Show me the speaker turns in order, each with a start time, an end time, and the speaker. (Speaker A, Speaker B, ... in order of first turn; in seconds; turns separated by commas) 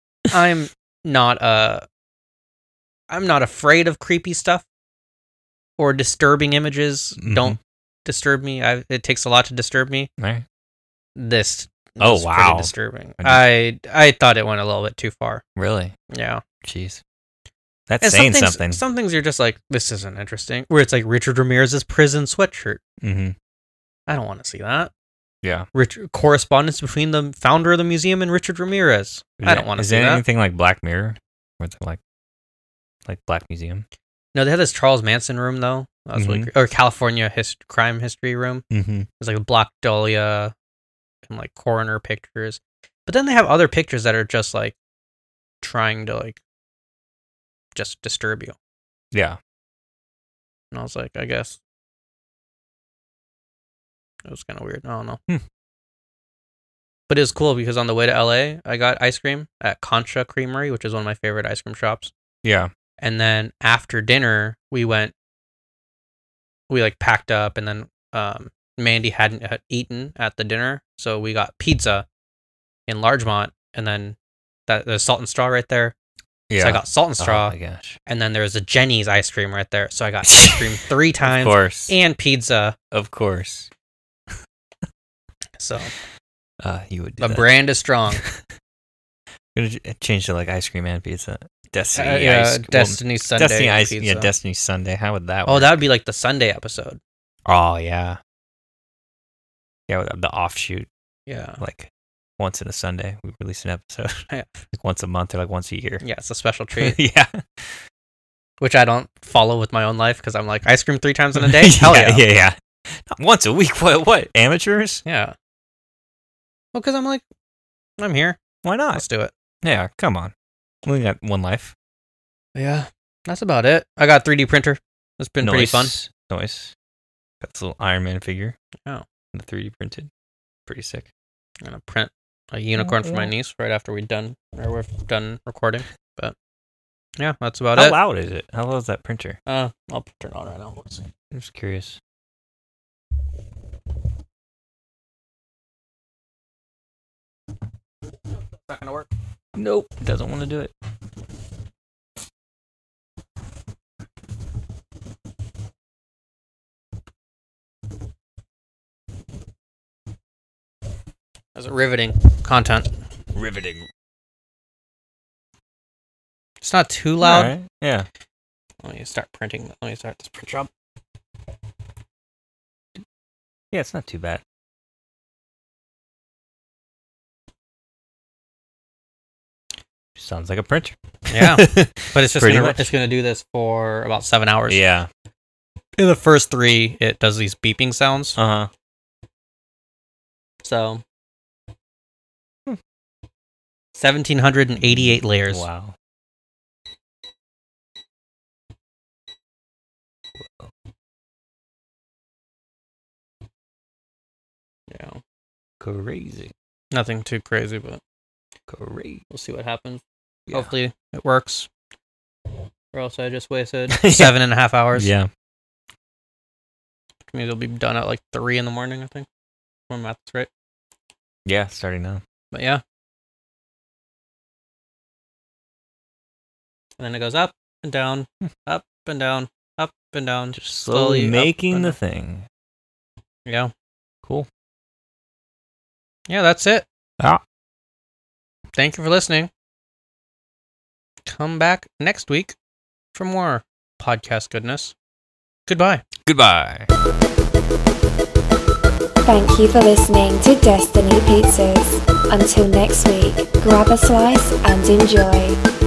Speaker A: 0.3-1.9, Speaker A: 3.1-4.6, Speaker A: 5.8-10.1, Speaker B: 7.2-7.6, Speaker B: 10.2-10.4, Speaker A: 11.2-15.4, Speaker B: 12.0-13.5, Speaker B: 15.6-16.0, Speaker A: 16.1-16.4, Speaker B: 16.6-17.0, Speaker B: 17.9-18.8, Speaker A: 18.0-22.8, Speaker B: 23.0-23.4, Speaker A: 24.1-24.9, Speaker A: 25.7-30.2, Speaker B: 29.4-32.0, Speaker B: 33.0-33.9, Speaker A: 34.4-38.6, Speaker B: 36.1-36.5, Speaker B: 38.7-39.1, Speaker A: 39.2-40.5, Speaker A: 41.3-44.8, Speaker A: 45.6-46.4, Speaker A: 47.8-48.6, Speaker B: 49.1-49.4, Speaker A: 50.7-51.6, Speaker A: 54.3-55.2, Speaker A: 57.1-62.1, Speaker B: 62.4-62.7, Speaker A: 63.0-65.1, Speaker A: 66.7-72.0, Speaker A: 72.9-74.2, Speaker A: 74.7-75.9, Speaker B: 76.5-78.0, Speaker A: 76.6-77.5, Speaker A: 78.1-82.8, Speaker B: 80.3-80.7, Speaker B: 81.2-81.9, Speaker B: 82.9-83.7, Speaker A: 85.6-85.9, Speaker B: 86.6-87.6, Speaker A: 87.2-88.2, Speaker B: 89.5-95.8, Speaker A: 91.9-94.3, Speaker A: 95.5-97.0, Speaker B: 97.4-98.2, Speaker B: 99.9-100.9, Speaker A: 101.3-101.6, Speaker B: 101.6-104.1, Speaker B: 104.7-106.0, Speaker A: 106.0-107.0, Speaker B: 106.8-107.8, Speaker A: 108.6-112.2, Speaker B: 111.4-115.0, Speaker A: 115.1-115.3, Speaker A: 116.7-117.2, Speaker A: 118.0-118.4, Speaker B: 118.6-119.0, Speaker A: 118.9-119.3, Speaker B: 119.6-120.3, Speaker B: 120.8-121.7, Speaker A: 122.5-125.9, Speaker B: 125.4-126.7, Speaker B: 127.4-128.6, Speaker B: 129.3-130.1, Speaker B: 130.7-131.1, Speaker A: 131.6-136.3, Speaker B: 132.8-133.3, Speaker A: 137.2-138.0, Speaker B: 137.8-139.4, Speaker A: 139.5-141.0, Speaker B: 141.3-142.0, Speaker A: 148.7-149.1, Speaker B: 149.6-150.7, Speaker A: 161.6-162.9, Speaker B: 163.3-163.9, Speaker A: 166.6-167.5, Speaker B: 167.2-168.1, Speaker A: 168.8-170.7, Speaker B: 173.7-174.4, Speaker B: 180.2-182.9, Speaker A: 181.3-184.8, Speaker B: 184.7-185.1, Speaker A: 186.0-188.4, Speaker B: 188.4-188.7, Speaker A: 190.6-191.0, Speaker A: 193.9-195.6, Speaker B: 194.9-196.0, Speaker B: 200.4-200.7, Speaker A: 204.9-205.2, Speaker B: 205.8-206.5, Speaker A: 206.9-208.0, Speaker B: 208.7-209.2, Speaker A: 209.3-211.7, Speaker A: 212.9-215.1, Speaker B: 213.9-214.3, Speaker B: 214.9-215.3, Speaker A: 217.3-219.3, Speaker A: 219.9-220.5, Speaker B: 221.5-222.2, Speaker A: 222.5-222.8, Speaker A: 227.0-232.0, Speaker B: 230.6-232.5, Speaker A: 233.5-233.7, Speaker A: 236.3-236.9, Speaker A: 238.8-239.5, Speaker A: 241.3-242.6, Speaker A: 243.1-244.9, Speaker A: 245.7-246.0, Speaker B: 246.2-246.9, Speaker C: 249.2-255.6